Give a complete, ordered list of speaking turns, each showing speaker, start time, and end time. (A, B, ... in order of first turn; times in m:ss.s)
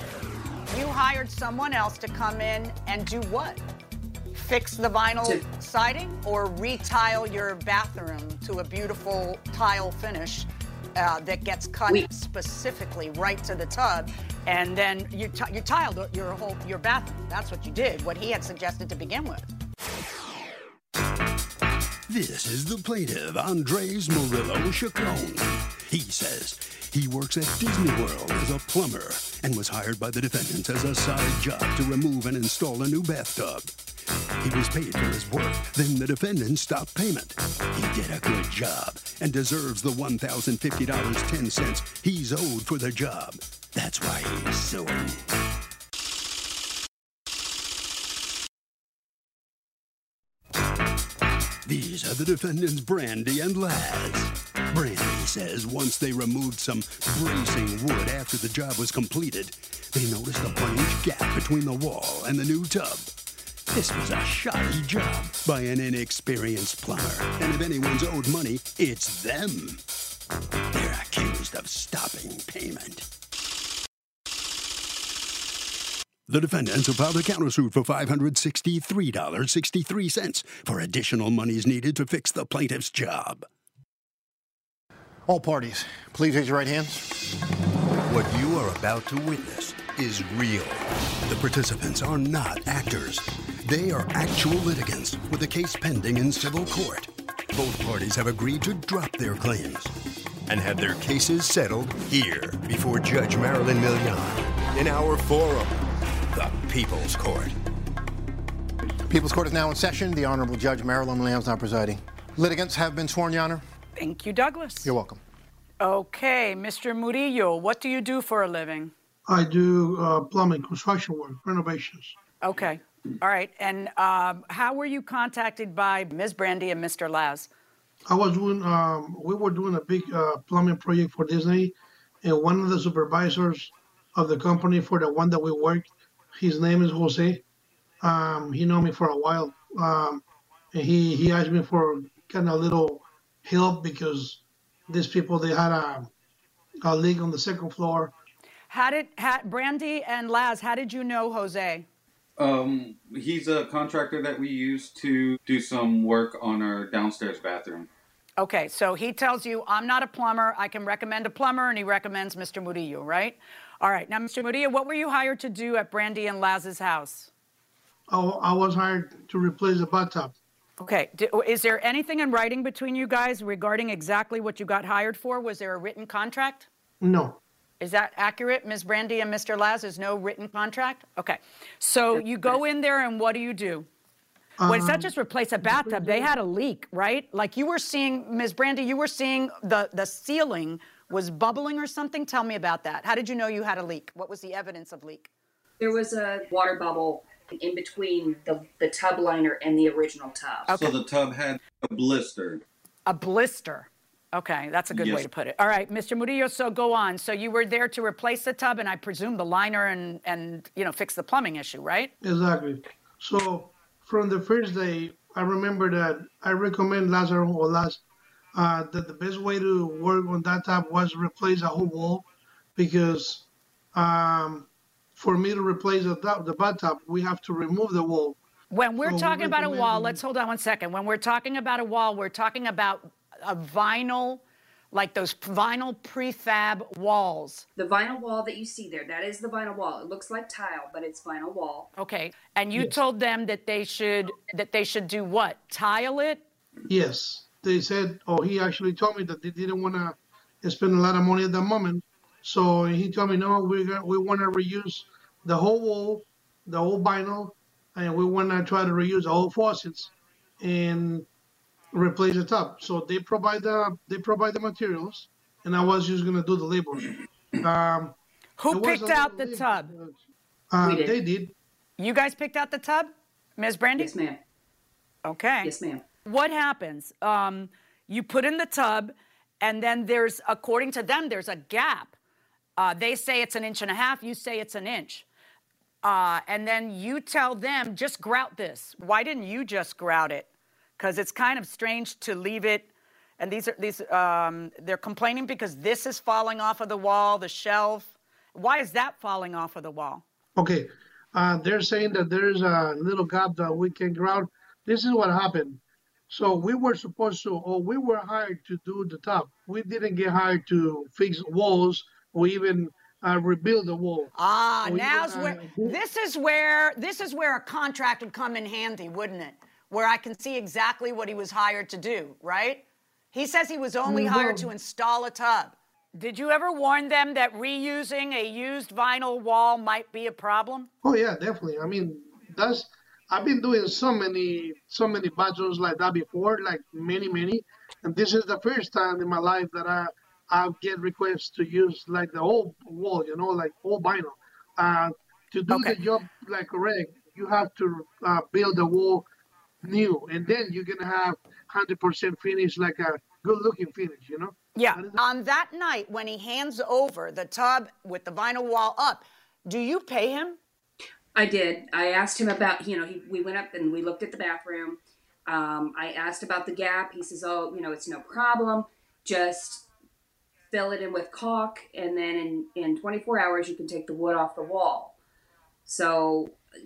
0:00.7-0:03.6 A
0:04.3-0:19.5 A
0:22.1-0:33.7 B
0:34.4-0:45.2 B
0:51.6-1:03.1 B
1:03.7-1:09.8 B
1:10.7-1:13.0 B
1:16.3-1:23.5 B
1:25.3-1:27.1 C
1:28.1-1:39.9 B
1:40.5-1:45.8 B
1:46.3-1:47.6 B
1:49.1-1:53.6 C
1:54.0-1:54.9 A
1:54.8-1:55.2 C
1:55.8-1:58.9 A
1:59.3-2:02.2 D
2:02.4-2:07.5 A
2:08.1-2:17.4 D
2:18.0-2:26.1 D
2:26.8-2:28.1 D
2:28.7-2:31.9 A
2:32.4-2:37.9 E
2:38.4-2:47.3 A
2:48.1-2:50.4 D
2:50.8-2:56.7 A
2:57.0-2:57.4 D
2:57.8-3:03.9 A
3:02.2-3:02.5 F
3:04.6-3:05.1 D
3:04.7-3:15.3 A
3:05.6-3:06.3 D
3:15.8-3:20.7 F
3:20.7-3:20.9 A
3:20.7-3:22.6 E
3:23.1-3:32.1 A
3:24.9-3:25.3 E
3:32.2-3:38.0 D
3:38.6-3:42.2 D
3:42.8-3:48.4 D
3:48.7-3:57.6 A
3:49.0-3:50.2 D
3:57.8-4:01.9 F
4:02.0-4:06.4 A
4:06.9-4:21.3 D
4:21.9-4:28.2 D
4:28.6-4:29.9 A
4:28.7-4:31.6 D
4:30.8-4:31.2 F
4:32.0-4:34.1 A
4:34.0-4:34.4 F
4:35.2-4:35.7 A
4:35.6-4:36.0 F
4:36.2-4:42.1 A
4:42.8-4:45.2 A
4:46.0-4:50.5 A
4:51.0-5:00.2 A
5:00.6-5:14.3 D
5:14.4-5:30.9 A
5:14.8-5:16.0 D
5:24.0-5:24.7 D
5:31.0-5:49.2 D
5:45.7-5:46.0 A
5:49.8-5:55.2 D
5:54.8-6:00.6 A
6:01.4-6:09.9 F
6:10.7-6:15.2 F
6:15.9-6:16.6 F